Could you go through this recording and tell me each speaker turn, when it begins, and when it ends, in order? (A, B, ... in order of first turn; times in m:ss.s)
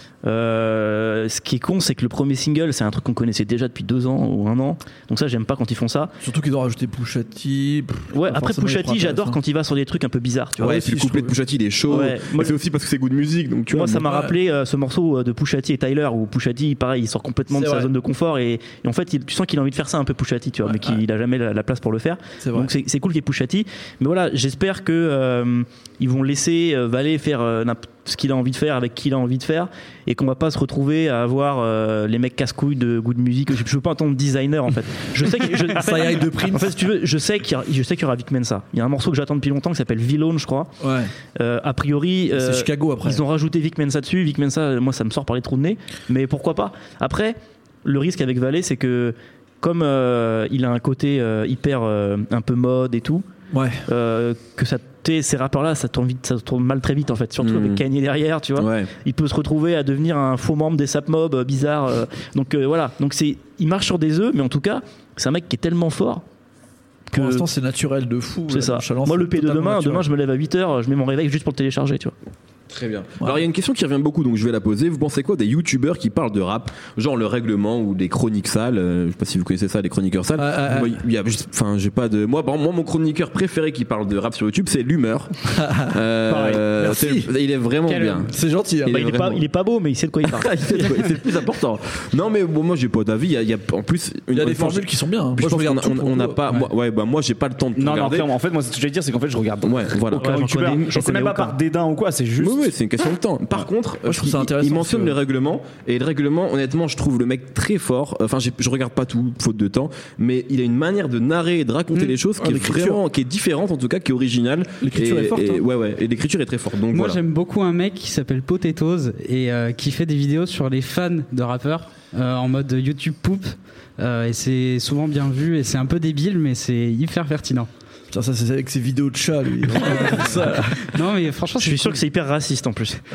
0:00.2-0:06.2 A
0:06.2-0:09.4 B
0:08.1-0:10.7 A
0:10.6-0:11.4 B
0:10.6-0:14.0 C
0:11.9-0:12.6 A
0:13.7-0:40.7 A
0:14.0-0:14.3 B
0:17.5-0:17.9 B
0:20.7-0:21.0 B
0:22.4-0:22.7 B
0:35.5-0:36.8 B
0:40.8-0:41.1 B
0:41.4-0:53.2 A
0:42.3-0:43.2 B
0:53.5-0:53.8 B
0:53.9-1:06.2 A
0:57.4-0:57.8 C
0:58.6-0:58.9 C
1:07.1-1:07.5 A
1:07.1-1:10.1 B
1:08.5-1:12.2 A
1:12.7-1:25.3 C
1:20.4-1:21.0 B
1:25.5-1:26.0 B
1:25.9-1:28.3 C
1:26.3-1:26.6 D
1:26.8-1:27.3 B
1:27.9-1:28.3 E
1:28.3-1:29.0 B
1:28.9-1:29.4 C
1:28.9-1:30.9 A
1:30.4-1:38.3 C
1:34.3-1:36.6 B
1:37.8-1:42.8 D
1:39.6-1:40.8 C
1:40.2-1:41.5 A
1:42.4-1:57.2 C
1:44.0-1:45.2 B
1:52.4-1:53.0 B
1:54.8-1:55.6 B
1:56.9-2:07.7 E
2:08.1-2:10.9 B
2:09.9-2:12.0 E
2:11.6-2:13.0 A